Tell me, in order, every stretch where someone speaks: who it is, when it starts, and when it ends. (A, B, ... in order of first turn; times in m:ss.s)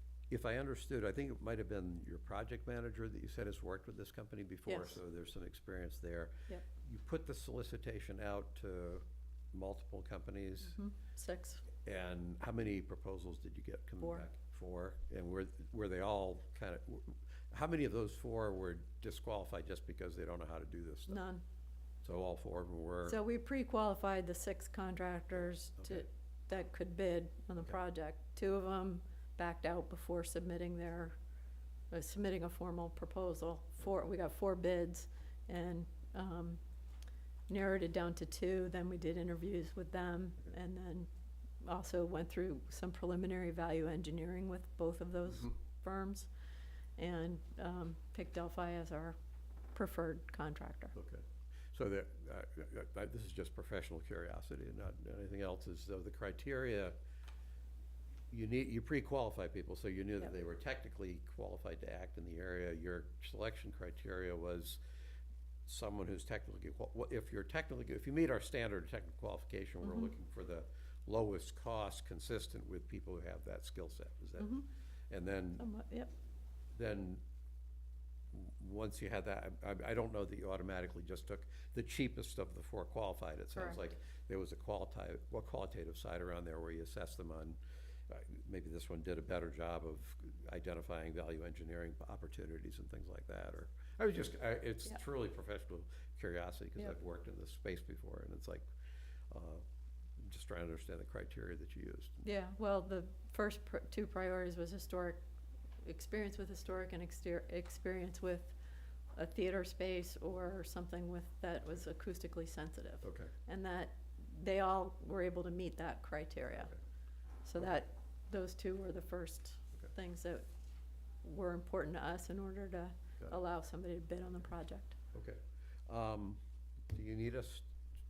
0:00.3-0:10.8 A
0:04.7-0:05.0 B
0:10.6-0:11.6 B
0:11.8-0:21.2 A
0:21.1-0:21.4 B
0:22.0-0:23.2 A
0:23.0-0:31.1 B
0:25.8-0:26.1 A
0:31.9-0:36.6 B
0:37.5-0:41.1 B
0:41.6-0:46.3 B
0:47.0-0:49.2 B
0:49.7-0:50.9 B
0:50.9-0:57.0 A
0:58.3-1:04.8 A
1:05.7-1:14.5 A
1:09.8-1:10.1 B
1:14.4-1:14.7 B
1:15.1-1:15.6 A
1:15.6-1:16.1 B
1:16.7-1:17.2 A
1:18.3-1:38.6 A
1:39.3-1:39.6 A
1:40.2-1:42.2 A
1:42.2-1:45.2 B
1:45.8-1:48.6 B
1:49.1-1:56.7 B
1:53.0-1:53.3 A
1:57.4-2:00.4 B
2:01.2-2:05.0 B
2:05.1-2:06.4 A
2:06.9-2:07.7 A